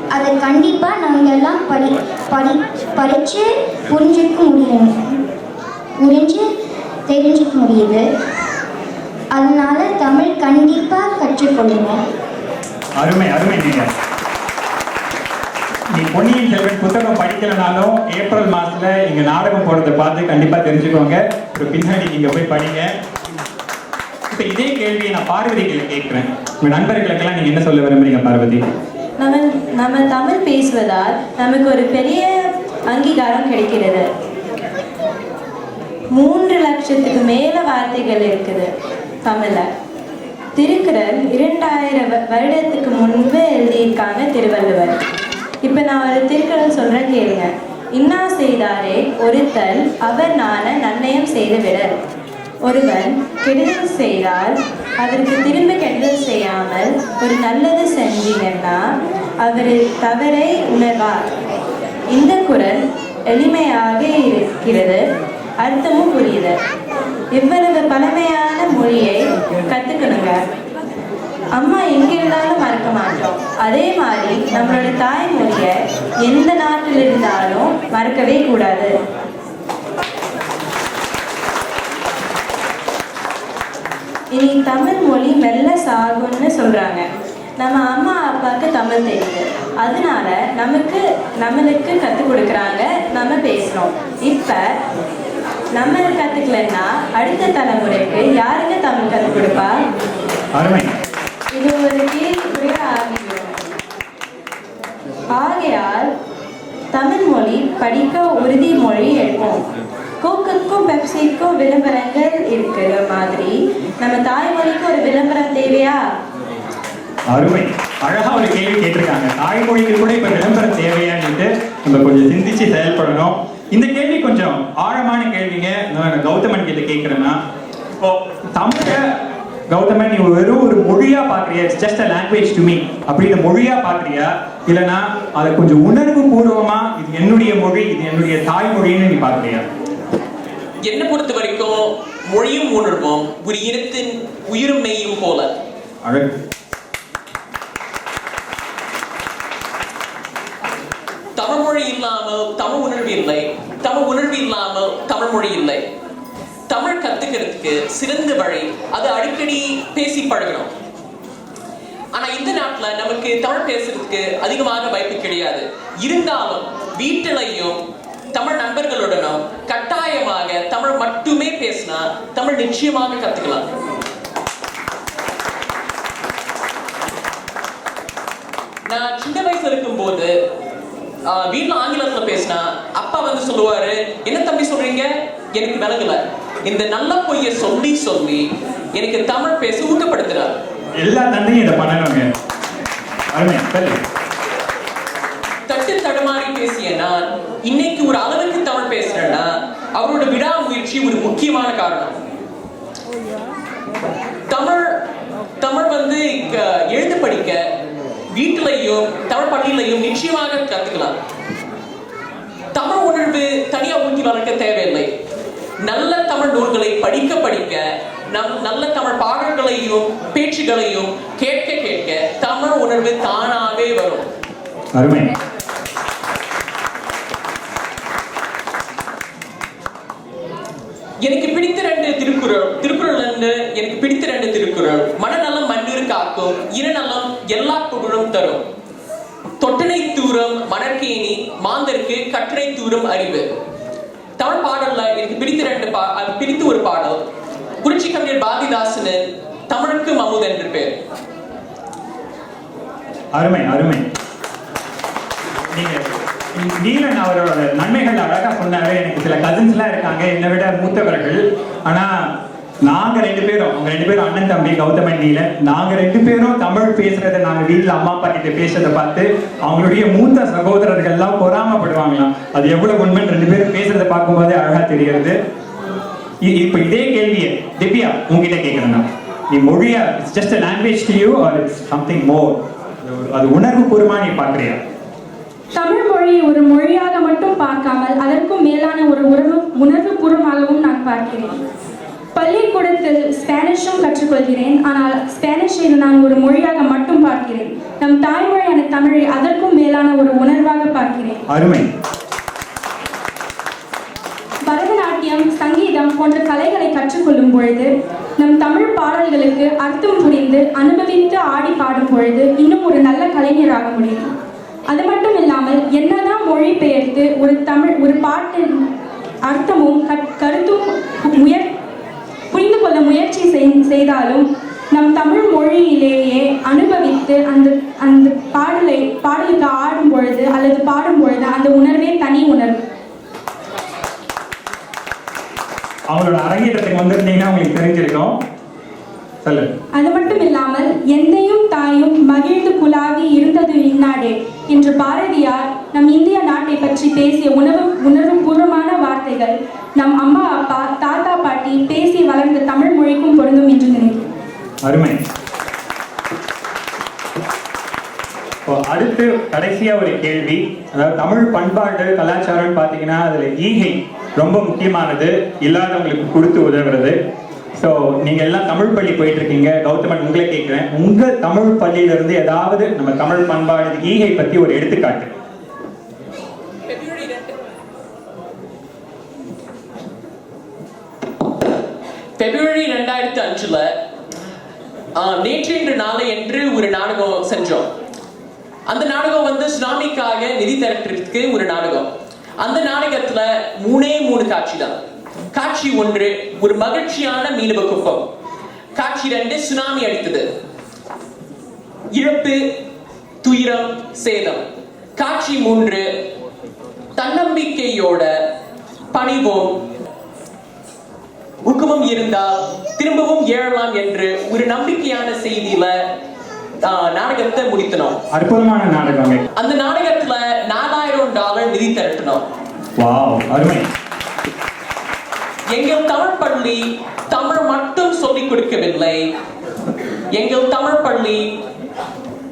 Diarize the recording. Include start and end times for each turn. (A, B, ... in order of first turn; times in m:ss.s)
0:00.1-0:05.2 A
0:06.0-0:06.5 A
0:07.1-0:08.0 A
0:09.3-0:12.0 A
0:13.0-0:13.9 B
0:15.9-0:22.9 B
0:24.3-0:28.6 B
0:29.2-0:34.1 C
0:36.1-0:38.7 C
0:39.2-0:39.7 C
0:40.6-0:45.0 C
0:45.6-0:52.0 C
0:52.6-0:58.9 C
0:59.4-1:01.4 C
1:02.1-1:05.0 C
1:05.6-1:06.6 C
1:07.4-1:10.4 C
1:11.6-1:18.9 C
1:24.3-1:27.0 C
1:27.6-1:34.7 C
1:35.7-1:39.8 C
1:40.5-1:40.9 B
1:41.6-1:43.6 C
1:45.3-1:46.1 C
1:46.9-1:49.6 C
1:50.2-1:56.1 C
1:57.3-2:07.4 B
2:08.0-2:09.2 B
2:09.7-2:19.7 B
2:20.8-2:25.5 D
2:26.0-2:26.3 B
2:31.4-2:35.8 D
2:36.7-2:40.7 D
2:42.1-2:47.8 D
2:48.3-2:53.7 D
2:58.9-3:00.3 D
3:01.3-3:10.6 D
3:11.0-3:12.3 B
3:13.3-3:14.0 B
3:15.7-3:22.2 D
3:24.5-3:25.0 D
3:25.6-3:27.6 D
3:28.3-3:31.1 D
3:32.7-3:35.1 D
3:35.8-3:44.3 D
3:44.9-3:45.3 B
3:51.2-3:58.6 D
3:59.6-4:03.5 D
4:04.4-4:07.2 D
4:07.8-4:11.0 D
4:13.3-4:14.0 B
4:15.7-4:22.3 B
4:22.8-4:35.4 B
4:36.4-4:44.8 B
4:45.7-4:51.6 E
4:52.4-5:01.4 E
5:01.5-5:01.9 B
5:04.6-5:14.3 E
5:14.9-5:18.9 E
5:19.4-5:21.8 E
5:22.5-5:32.8 E
5:36.1-5:38.4 B
5:39.4-5:39.7 B
5:40.0-5:54.3 E
5:54.8-5:55.2 B
5:58.6-6:07.2 B
6:07.8-6:15.3 B
6:16.9-6:17.5 D
6:22.4-6:23.9 D
6:25.2-6:27.9 D
6:28.9-6:32.1 D
6:32.6-6:35.0 D
6:35.5-6:38.3 D
6:39.0-6:40.5 D
6:42.1-6:42.7 D
6:43.4-6:44.6 D
6:45.2-6:46.1 D
6:47.2-6:48.3 D
6:49.1-6:49.8 D
6:51.6-6:56.1 D
6:56.8-6:58.2 D
6:58.3-6:59.4 B
6:59.6-7:02.4 D
7:03.0-7:03.9 B
7:05.7-7:09.3 D
7:10.3-7:11.6 D